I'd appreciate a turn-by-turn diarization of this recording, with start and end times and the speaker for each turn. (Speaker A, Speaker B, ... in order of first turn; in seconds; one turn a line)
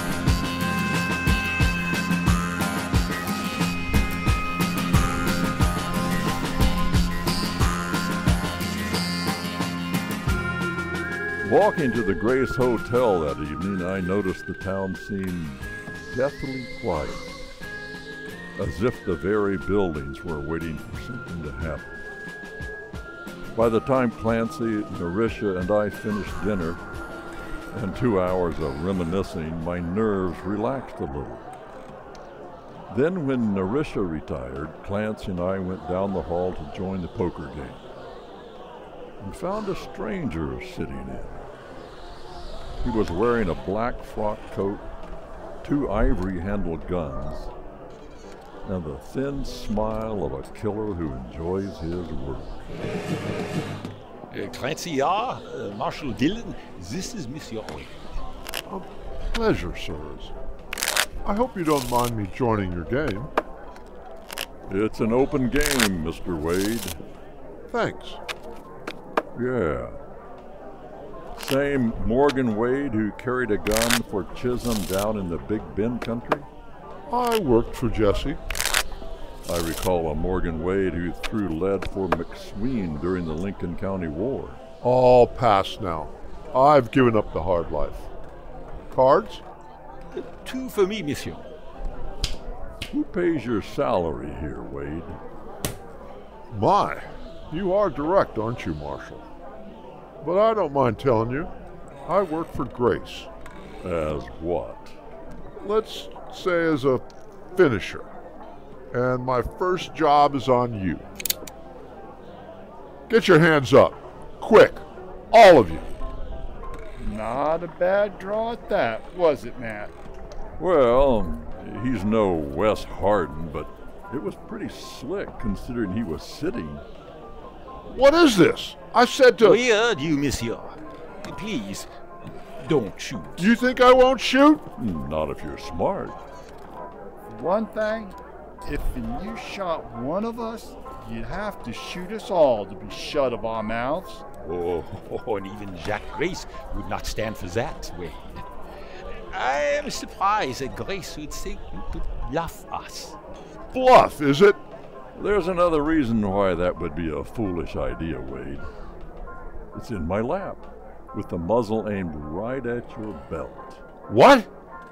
Speaker A: 11.4-17.3
Speaker A: 18.6-21.9
Speaker A: 23.6-26.8
Speaker A: 27.7-31.5
Speaker A: 32.9-37.8
Speaker A: 39.2-41.5
Speaker A: 42.8-44.8
Speaker A: 45.6-47.5
Speaker A: 48.6-52.6
Speaker B: 54.3-58.0
Speaker C: 58.7-60.3
Speaker C: 61.2-63.3
Speaker A: 64.7-67.0
Speaker C: 67.7-68.2
Speaker A: 69.3-70.0
Speaker A: 71.4-76.5
Speaker C: 77.1-78.4
Speaker A: 79.5-84.6
Speaker C: 84.8-88.1
Speaker C: 88.9-89.4
Speaker B: 90.1-91.5
Speaker A: 92.9-95.2
Speaker C: 96.5-99.2
Speaker C: 100.2-101.5
Speaker C: 102.1-103.3
Speaker A: 103.8-105.0
Speaker C: 105.6-108.1
Speaker C: 108.9-111.0
Speaker C: 113.1-115.9
Speaker D: 117.0-119.9
Speaker A: 120.6-126.8
Speaker C: 127.9-129.6
Speaker B: 129.4-133.5
Speaker C: 133.4-134.7
Speaker A: 134.8-136.2
Speaker D: 137.3-144.2
Speaker B: 144.4-148.5
Speaker B: 149.3-153.2
Speaker C: 153.7-154.6
Speaker A: 155.2-158.7
Speaker A: 159.7-163.8
Speaker C: 164.1-164.5